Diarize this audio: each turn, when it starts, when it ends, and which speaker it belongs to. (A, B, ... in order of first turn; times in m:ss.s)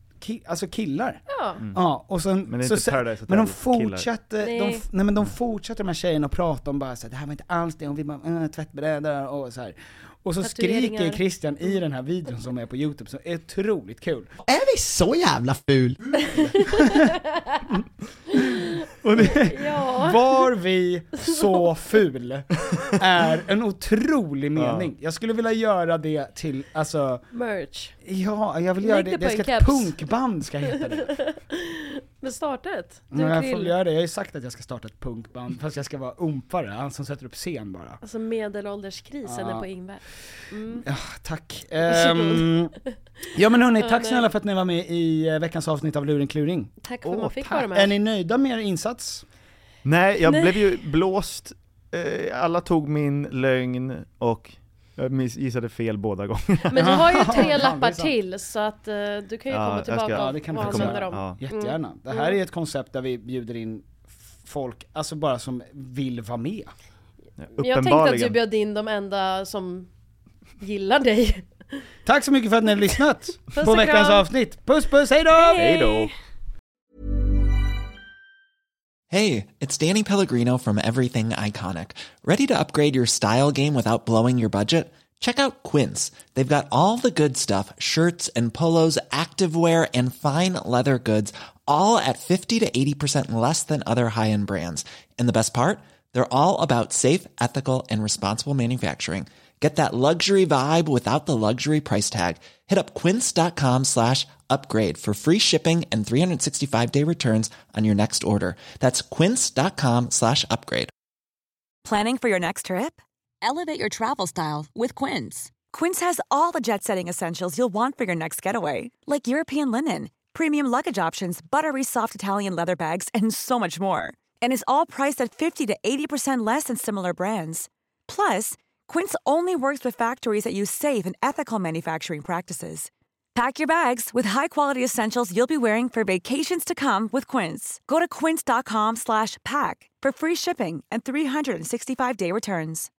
0:00.2-0:14.3 A
0:01.3-0:01.6 B
0:02.4-0:04.1 C
0:04.4-0:04.8 B
0:10.4-0:11.2 B
0:16.2-0:17.7 B
0:16.6-0:17.0 A
0:18.3-0:20.4 B
0:19.0-0:27.2 A
0:21.2-0:21.6 B
0:24.6-0:24.9 C
0:27.3-0:28.0 B
0:28.0-0:31.2 A
0:28.8-0:30.0 B
0:31.1-0:33.7 B
0:33.1-0:38.0 A
0:38.0-0:40.9 B
0:39.2-0:39.7 A
0:40.8-0:42.7 A
0:41.8-0:42.7 B
0:43.3-0:46.7 A
0:43.8-0:44.3 B
0:46.8-0:47.9 B
0:47.0-0:47.6 C
0:47.5-0:49.2 A
0:49.8-0:57.3 C
0:50.3-0:50.7 B
0:56.7-1:02.3 B
0:56.8-0:58.1 A
0:59.5-1:01.4 C
1:00.1-1:06.7 A
1:07.4-1:08.4 C
1:07.6-1:09.9 B
1:10.6-1:11.5 B
1:12.0-1:15.6 A
1:13.5-1:14.2 B
1:15.3-1:16.1 B
1:15.6-1:16.1 C
1:19.1-1:50.9 D
1:51.8-2:22.9 E